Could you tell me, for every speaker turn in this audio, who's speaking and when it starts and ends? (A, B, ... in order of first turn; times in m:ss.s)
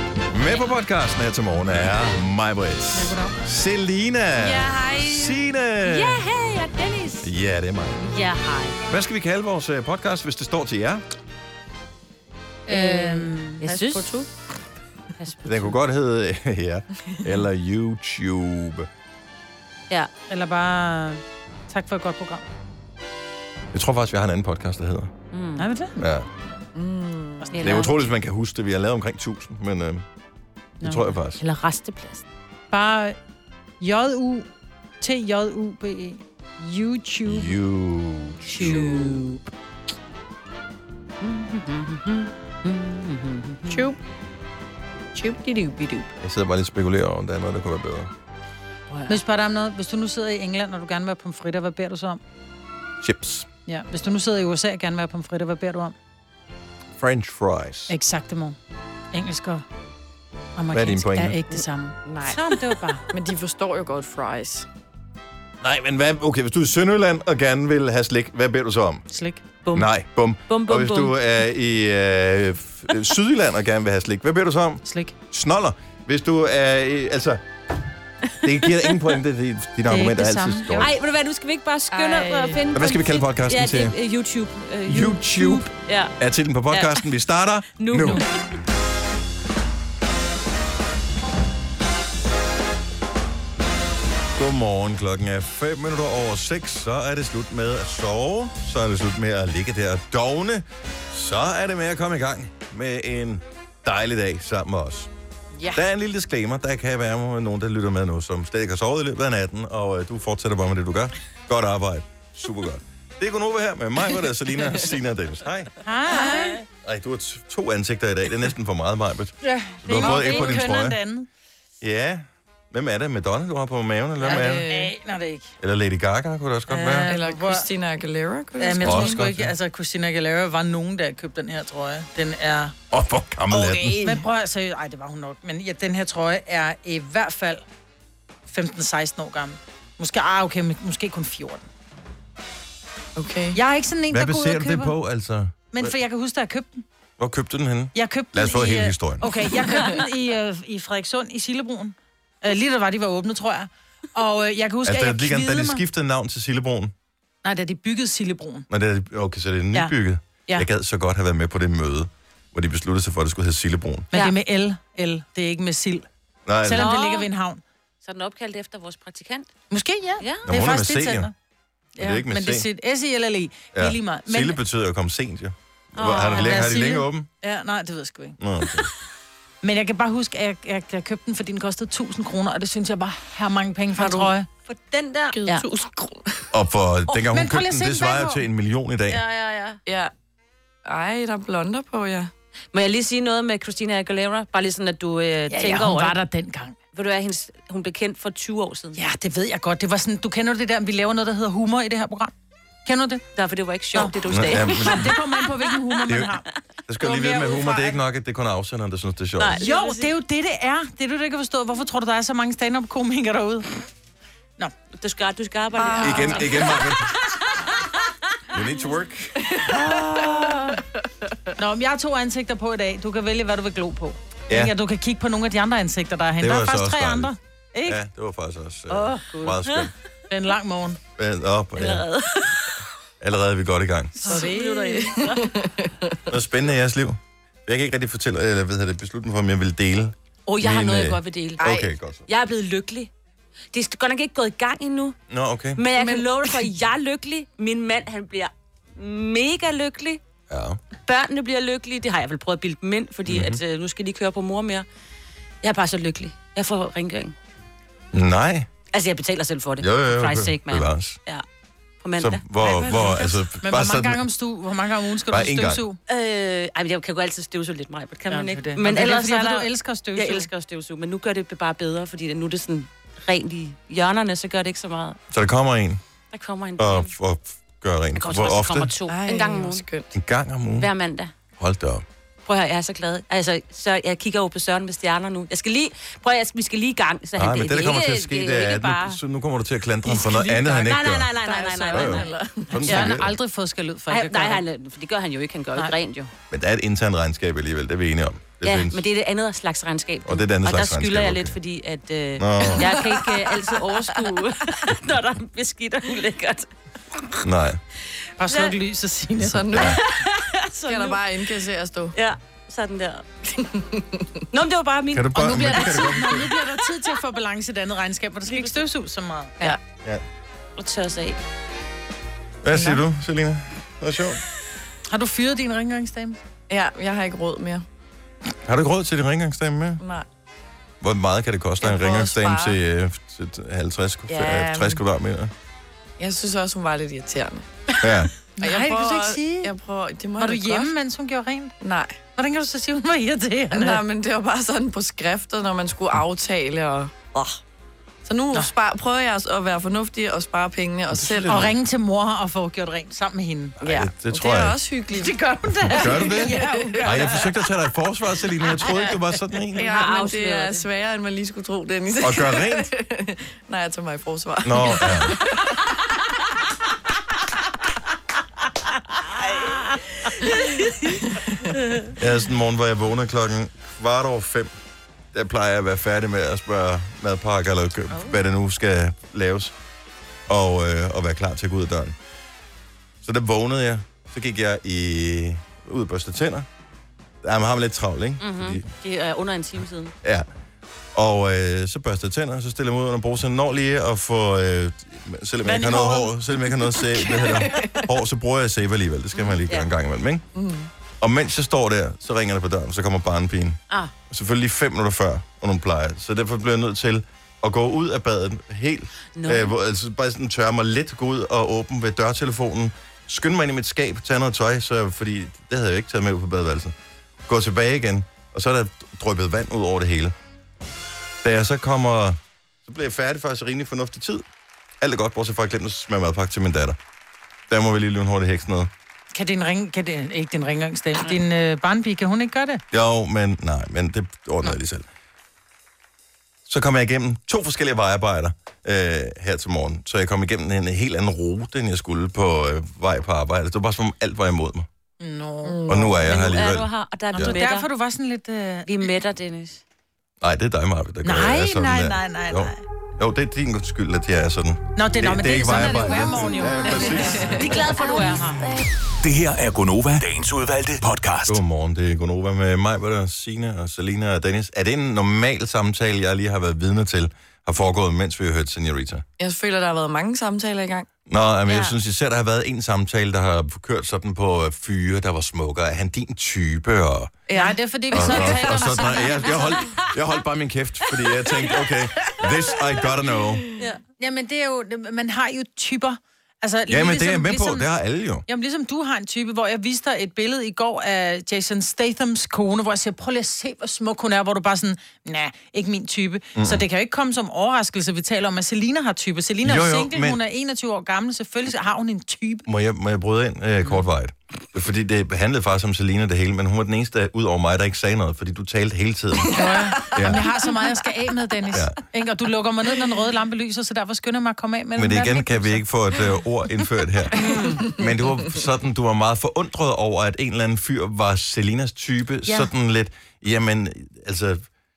0:00.3-0:06.2 A
0:00.5-0:00.8 B
0:02.9-0:03.4 C
0:04.7-0:05.1 C
0:05.8-0:07.3 B
0:07.2-0:08.1 A
0:08.0-0:08.8 B
0:08.9-0:11.0 A
0:12.7-0:14.1 C
0:12.7-0:14.2 B
0:15.2-0:15.8 B
0:15.4-0:18.9 A
0:20.3-0:22.4 C
0:23.7-0:25.1 A
0:25.3-0:25.6 B
0:25.6-0:26.0 C
0:26.0-0:26.3 A
0:26.7-0:27.5 D
0:27.4-0:27.9 C
0:27.5-0:27.9 B
0:27.6-0:30.0 A
0:30.8-0:31.4 A
0:31.4-0:32.2 B
0:32.7-0:33.2 C
0:33.8-0:34.5 C
0:35.0-0:37.5 C
0:37.2-0:39.0 A
0:38.5-0:39.4 B
0:38.6-0:39.3 C
0:41.2-0:43.9 B
0:45.2-0:46.0 D
0:45.2-0:45.8 C
0:46.2-0:48.1 A
0:48.9-0:49.2 B
0:49.1-0:52.2 C
0:53.0-0:53.5 A
0:53.7-0:55.9 C
0:57.0-0:57.9 A
0:57.9-0:58.6 C
0:59.1-0:59.6 C
1:00.6-1:03.0 C
1:00.7-1:01.4 A
1:02.0-1:02.4 D
1:03.1-1:04.7 D
1:05.6-1:09.0 A
1:09.1-1:09.4 C
1:09.6-1:09.9 B
1:09.7-1:17.4 A
1:10.5-1:11.2 B
1:14.8-1:15.1 C
1:18.4-1:20.9 A
1:18.5-1:18.9 B
1:19.9-1:20.9 C
1:20.8-1:26.1 B
1:21.9-1:22.6 C
1:22.7-1:23.9 A
1:24.9-1:28.2 A
1:26.7-1:27.0 B
1:27.8-1:28.3 B
1:34.4-1:45.1 A
1:45.7-1:55.7 A
1:55.8-1:56.6 C
1:56.8-2:01.0 A
1:59.4-2:01.3 C
2:00.0-2:00.5 B
2:01.8-2:04.6 A
2:04.2-2:04.9 D
2:04.2-2:05.5 C
2:05.6-2:07.1 A
2:06.7-2:07.6 C
2:07.1-2:09.2 D
2:08.6-2:12.7 C
2:08.8-2:09.5 A
2:12.9-2:14.2 A
2:13.5-2:17.6 C
2:18.5-2:21.7 C
2:23.2-2:23.6 D
2:23.5-2:24.9 C
2:24.1-2:25.9 A
2:25.7-2:26.8 C
2:27.2-2:29.3 A
2:27.9-2:35.8 C
2:34.8-2:36.9 A
2:37.4-2:38.7 C
2:38.7-2:44.1 A
2:44.1-2:46.1 C
2:46.4-2:46.9 A
2:46.6-2:47.6 C
2:46.8-2:47.3 B
2:48.0-2:49.5 B
2:49.7-2:51.3 C
2:50.2-2:50.5 B
2:50.4-2:51.3 A
2:52.0-2:54.6 C
2:52.0-2:52.6 A
2:53.7-2:57.3 A
2:56.0-2:56.7 B
2:56.0-2:58.4 C
2:58.4-2:58.9 A
2:59.6-3:04.5 C
3:04.0-3:04.2 D
3:04.6-3:05.6 B
3:05.3-3:06.4 D
3:06.5-3:09.2 A
3:07.1-3:08.4 C
3:09.1-3:09.8 B
3:10.8-3:12.3 D
3:12.7-3:16.2 B
3:15.5-3:16.8 C
3:16.9-3:19.0 B
3:19.0-3:22.3 C
3:22.8-3:23.2 C
3:23.4-3:25.1 B
3:23.9-3:26.4 C
3:24.3-3:25.2 A
3:26.1-3:26.3 A
3:26.9-3:29.6 A
3:27.0-3:28.0 C
3:29.4-3:30.1 B
3:29.6-3:33.7 C
3:35.0-3:36.9 B
3:35.8-3:36.4 D
3:36.0-3:37.1 A
3:38.5-3:39.4 A
3:39.4-3:40.8 D
3:40.2-3:40.6 B
3:41.6-3:48.0 C
3:46.4-3:47.3 A
3:47.8-3:49.9 A
3:49.0-3:49.9 B
3:50.3-3:51.0 C
3:51.2-3:52.1 A
3:51.8-3:52.8 B
3:53.2-3:54.3 A
3:54.2-3:55.3 C
3:54.3-3:56.2 D
3:54.3-3:55.4 B
3:56.3-4:02.2 A
4:00.5-4:03.1 B
4:01.6-4:01.9 D
4:03.7-4:05.2 B
4:05.3-4:05.8 A
4:05.8-4:10.2 B
4:05.9-4:06.6 D
4:10.5-4:10.8 A
4:11.0-4:14.8 B
4:13.3-4:13.6 A
4:15.6-4:17.3 B
4:18.1-4:18.7 A
4:18.9-4:21.4 B
4:19.8-4:21.2 A
4:22.0-4:23.1 B
4:22.2-4:24.2 A
4:22.7-4:23.4 D
4:23.6-4:26.0 C
4:25.3-4:25.8 A
4:26.1-4:35.2 B
4:28.3-4:30.5 C
4:35.3-4:36.0 A
4:36.3-4:37.1 B
4:36.8-4:38.9 A
4:38.2-4:39.8 B
4:39.1-4:40.1 D
4:40.1-4:40.9 A
4:40.8-4:41.3 B
4:41.6-4:42.0 A
4:42.4-4:49.2 B
4:47.4-4:53.3 A
4:50.0-4:52.3 B
4:51.4-4:52.9 D
4:52.8-4:53.2 B
4:52.8-4:54.6 C
4:54.1-4:56.3 B
4:56.5-4:59.0 A
4:58.6-5:06.7 B
5:00.2-5:01.6 A
5:02.4-5:02.9 A
5:02.9-5:04.3 D
5:07.4-5:07.8 A
5:08.4-5:09.8 C
5:09.4-5:10.0 D
5:09.7-5:10.0 A
5:09.8-5:11.2 B
5:10.9-5:12.1 D
5:12.1-5:13.2 B
5:13.5-5:14.3 D
5:14.5-5:15.9 B
5:15.1-5:16.5 A
5:15.3-5:19.7 C
5:18.5-5:18.8 B
5:20.8-5:21.4 B
5:22.6-5:24.4 A
5:25.1-5:26.4 C
5:26.7-5:27.8 D
5:28.6-5:30.0 A
5:30.0-5:30.2 D
5:31.0-5:35.5 A
5:31.8-5:32.7 D
5:34.3-5:35.0 D
5:36.2-5:37.7 D
5:38.0-5:38.3 A
5:38.5-5:39.7 C
5:38.6-5:40.9 D
5:40.4-5:41.7 C
5:41.8-5:42.2 D
5:42.4-5:44.0 C
5:43.7-5:47.6 D
5:48.2-5:51.7 D
5:51.1-5:51.8 A
5:51.5-5:53.7 C
5:53.8-5:54.8 A
5:53.8-5:55.4 D
5:55.1-5:57.5 C
5:55.9-5:59.9 A
5:55.9-5:57.3 D
5:59.7-6:05.7 D
5:59.8-6:00.9 B
6:02.2-6:02.9 A
6:04.6-6:05.4 A
6:09.4-6:11.2 B
6:12.1-6:14.7 A
6:15.3-6:19.7 A
6:20.5-6:22.2 A
6:23.2-6:26.7 A
6:27.4-6:28.8 A
6:28.4-6:30.1 B
6:31.1-6:40.4 A
6:35.8-6:36.2 C
6:37.0-6:38.0 D
6:39.3-6:39.9 B
6:40.5-6:40.9 D
6:41.2-6:43.8 A
6:44.3-6:56.9 A
6:49.4-6:49.7 B
6:57.5-7:00.3 A
7:01.4-7:04.4 A
7:05.0-7:07.0 A
7:07.7-7:08.9 A
7:09.3-7:12.8 C
7:12.9-7:15.0 A
7:16.6-7:24.9 A
7:25.2-7:25.8 C
7:25.6-7:26.2 D
7:25.9-7:27.6 A
7:26.2-7:27.9 B
7:27.3-7:28.9 C
7:28.9-7:29.8 B
7:30.4-7:37.6 A
7:31.2-7:32.8 C
7:35.0-7:38.6 C
7:37.6-7:38.6 B
7:39.2-7:41.6 E
7:41.4-7:49.2 A
7:49.4-7:51.1 D
7:51.3-7:57.3 A
7:57.5-7:58.7 D
7:57.5-7:59.6 C
7:58.1-8:03.6 A
8:02.3-8:03.4 D
8:03.8-8:07.9 C
8:06.9-8:08.4 A
8:08.5-8:22.6 C
8:16.6-8:16.8 A
8:19.6-8:20.4 A
8:22.6-8:30.4 A
8:29.5-8:35.8 C
8:31.7-8:32.0 A
8:35.0-8:44.6 A
8:37.4-8:37.7 B